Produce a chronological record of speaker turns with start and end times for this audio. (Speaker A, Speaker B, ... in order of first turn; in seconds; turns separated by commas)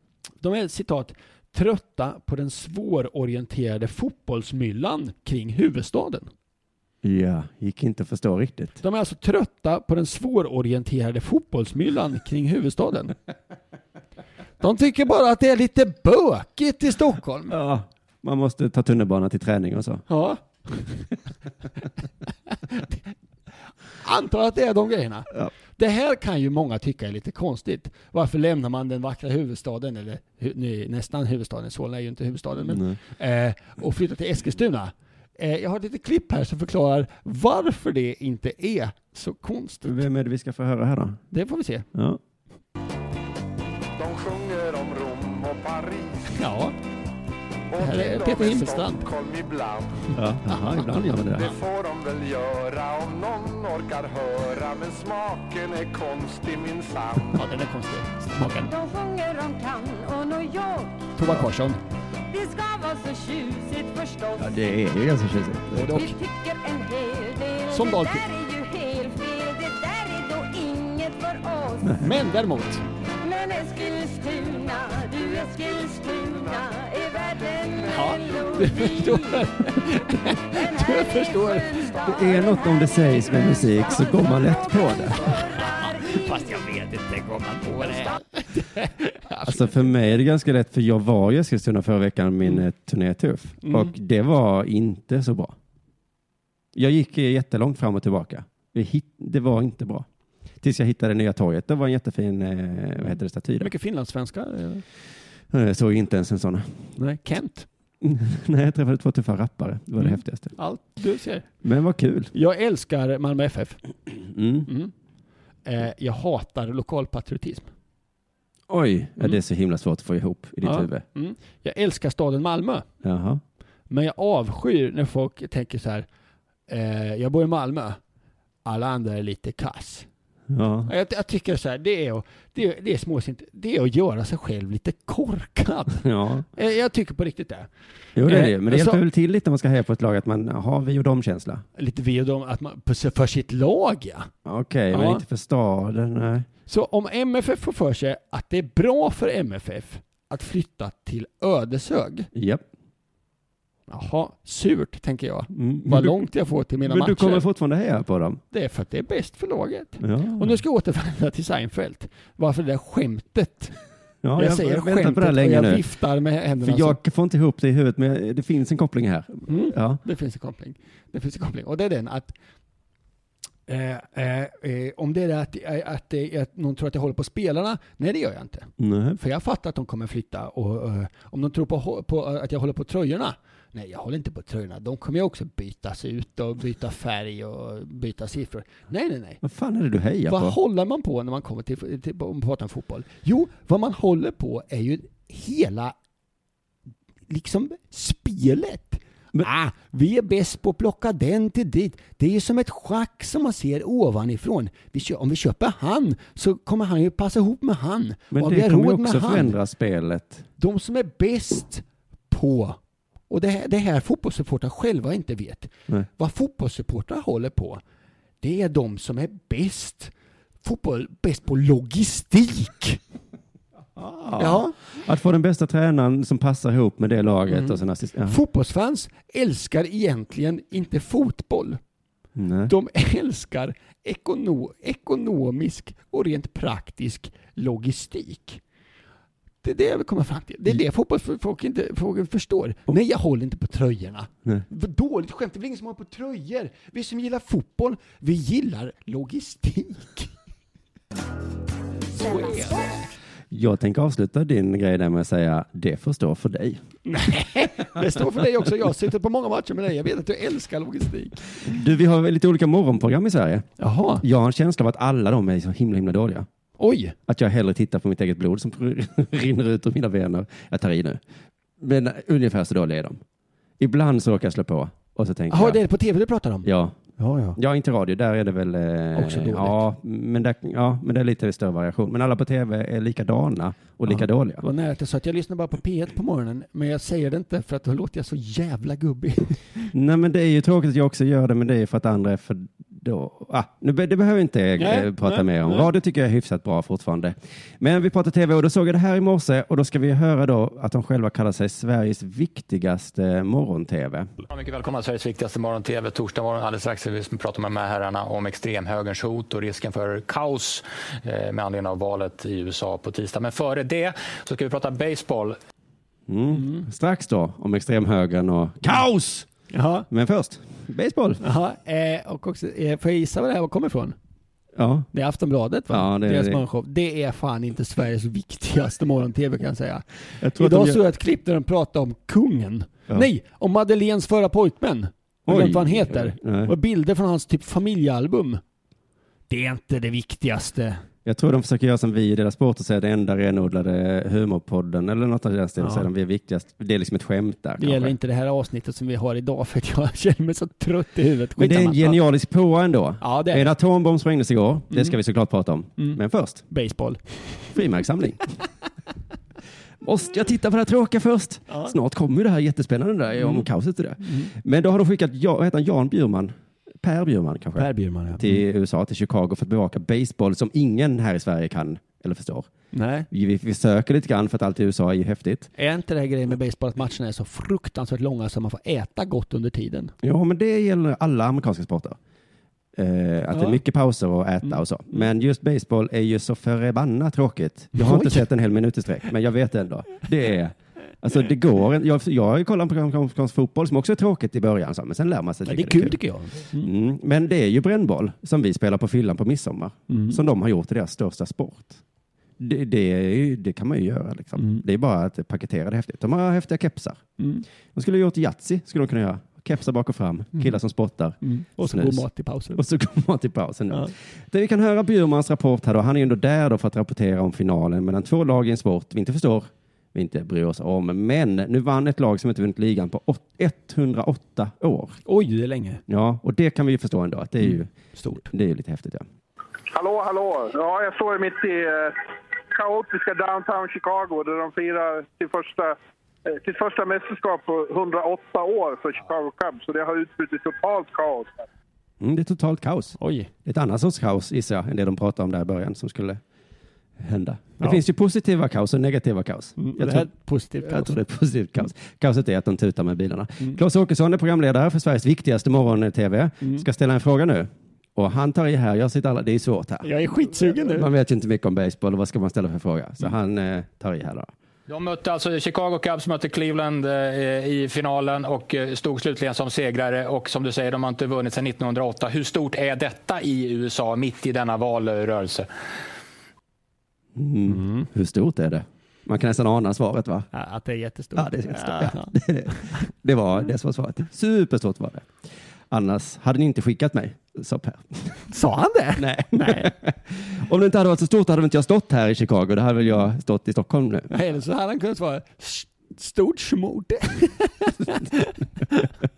Speaker A: 0.4-6.3, Speaker B: 7.0-8.8, Speaker A: 8.8-13.1, Speaker A: 14.6-17.6, Speaker B: 17.5-20.1, Speaker A: 20.1-21.1, Speaker A: 24.0-40.0, Speaker B: 32.7-33.0, Speaker B: 39.9-41.2, Speaker A: 41.3-41.9, Speaker B: 41.9-42.2, Speaker C: 44.0-46.3, Speaker A: 46.4-46.8, Speaker C: 47.7-50.0, Speaker A: 47.8-49.0, Speaker B: 50.1-51.5, Speaker C: 51.4-57.4, Speaker A: 57.4-58.7, Speaker D: 58.7-61.1, Speaker A: 61.2-61.8, Speaker D: 62.3-64.5, Speaker B: 64.4-66.0, Speaker A: 65.7-66.2, Speaker D: 65.9-72.0, Speaker A: 67.7-68.3, Speaker A: 72.0-72.8, Speaker D: 73.2-79.2, Speaker A: 77.9-82.1, Speaker D: 80.9-81.9, Speaker B: 82.0-85.3, Speaker A: 85.5-89.9, Speaker D: 85.8-86.1, Speaker B: 89.5-95.5, Speaker A: 93.6-93.9, Speaker B: 96.7-100.1, Speaker B: 100.6-103.7, Speaker A: 103.6-104.8, Speaker B: 105.5-106.8, Speaker A: 107.0-107.7, Speaker B: 108.0-110.5, Speaker A: 110.0-111.5, Speaker B: 111.6-112.3, Speaker A: 112.3-113.8, Speaker B: 114.1-114.7, Speaker A: 114.7-114.9, Speaker A: 115.7-117.7, Speaker B: 118.7-121.0, Speaker A: 120.6-122.9, Speaker B: 123.0-123.4, Speaker A: 123.9-126.1, Speaker A: 126.7-128.0, Speaker A: 128.7-130.1, Speaker B: 130.5-130.9, Speaker A: 130.9-137.7, Speaker B: 136.0-136.5, Speaker B: 138.2-141.6, Speaker A: 138.2-139.0, Speaker A: 141.8-144.3, Speaker B: 144.4-146.5, Speaker A: 144.9-145.2, Speaker A: 146.7-152.3, Speaker B: 152.3-152.7, Speaker A: 153.9-157.5, Speaker B: 155.5-156.2, Speaker B: 156.8-158.4, Speaker A: 158.5-163.7, Speaker B: 160.0-160.6, Speaker B: 164.2-165.8, Speaker A: 164.4-167.0, Speaker B: 166.6-170.0, Speaker A: 169.5-172.3, Speaker A: 173.7-189.4, Speaker B: 178.8-179.2, Speaker B: 189.4-190.6, Speaker A: 190.3-196.0, Speaker A: 197.3-209.6, Speaker B: 208.3-210.4, Speaker A: 210.6-212.8, Speaker A: 213.3-217.8, Speaker A: 218.4-220.1, Speaker A: 220.6-223.0, Speaker B: 224.0-228.4, Speaker A: 224.4-224.8, Speaker A: 227.5-231.8, Speaker B: 232.4-232.7, Speaker A: 232.7-238.6, Speaker A: 239.6-250.3, Speaker A: 252.1-253.1, Speaker B: 253.5-256.8, Speaker A: 257.1-261.8, Speaker B: 261.6-263.7, Speaker A: 263.8-264.2, Speaker B: 264.2-266.5, Speaker A: 266.8-267.1, Speaker B: 267.3-271.2, Speaker B: 271.8-273.2, Speaker B: 273.8-275.8, Speaker A: 275.5-277.6, Speaker B: 276.6-277.0, Speaker B: 277.6-284.6, Speaker A: 279.1-279.8, Speaker A: 284.1-289.9, Speaker B: 289.9-304.3, Speaker A: 294.8-295.9, Speaker E: 304.5-315.6, Speaker B: 316.3-319.5, Speaker A: 316.5-316.9, Speaker A: 319.7-320.1, Speaker B: 320.1-321.4, Speaker A: 321.4-324.1, Speaker B: 324.8-325.1, Speaker A: 325.1-338.6, Speaker B: 325.9-326.6, Speaker B: 330.4-331.0, Speaker B: 335.5-336.7, Speaker A: 339.5-341.0, Speaker B: 341.2-348.1, Speaker A: 345.8-346.1, Speaker A: 347.8-352.2, Speaker B: 351.6-356.6, Speaker A: 353.2-353.7, Speaker A: 356.0-357.8, Speaker B: 357.7-358.4, Speaker B: 360.0-372.7, Speaker A: 361.7-361.9, Speaker A: 363.4-363.7, Speaker A: 364.2-364.5, Speaker A: 367.8-368.6, Speaker A: 372.9-373.3, Speaker B: 373.3-375.7, Speaker A: 375.8-380.1, Speaker B: 380.2-382.2, Speaker B: 383.0-396.2, Speaker A: 383.5-383.8, Speaker A: 384.6-385.2, Speaker A: 387.9-388.5, Speaker A: 395.7-396.9, Speaker B: 396.8-402.0, Speaker A: 400.1-400.4, Speaker B: 402.6-407.2, Speaker A: 404.6-404.8, Speaker A: 407.4-407.6, Speaker B: 407.9-425.2, Speaker A: 411.4-412.8, Speaker A: 425.3-426.0, Speaker B: 426.1-429.2, Speaker A: 427.6-428.5, Speaker F: 429.9-441.6, Speaker B: 442.2-446.4, Speaker A: 443.2-443.5, Speaker B: 447.2-450.3, Speaker A: 449.8-451.2, Speaker B: 450.8-460.1, Speaker A: 460.0-461.1, Speaker B: 460.6-464.5, Speaker E: 464.9-475.7, Speaker B: 477.4-480.5, Speaker A: 477.7-478.1, Speaker A: 480.5-482.3, Speaker B: 481.4-485.4, Speaker B: 485.9-488.4, Speaker A: 488.5-489.9, Speaker B: 489.2-494.3, Speaker A: 494.3-499.0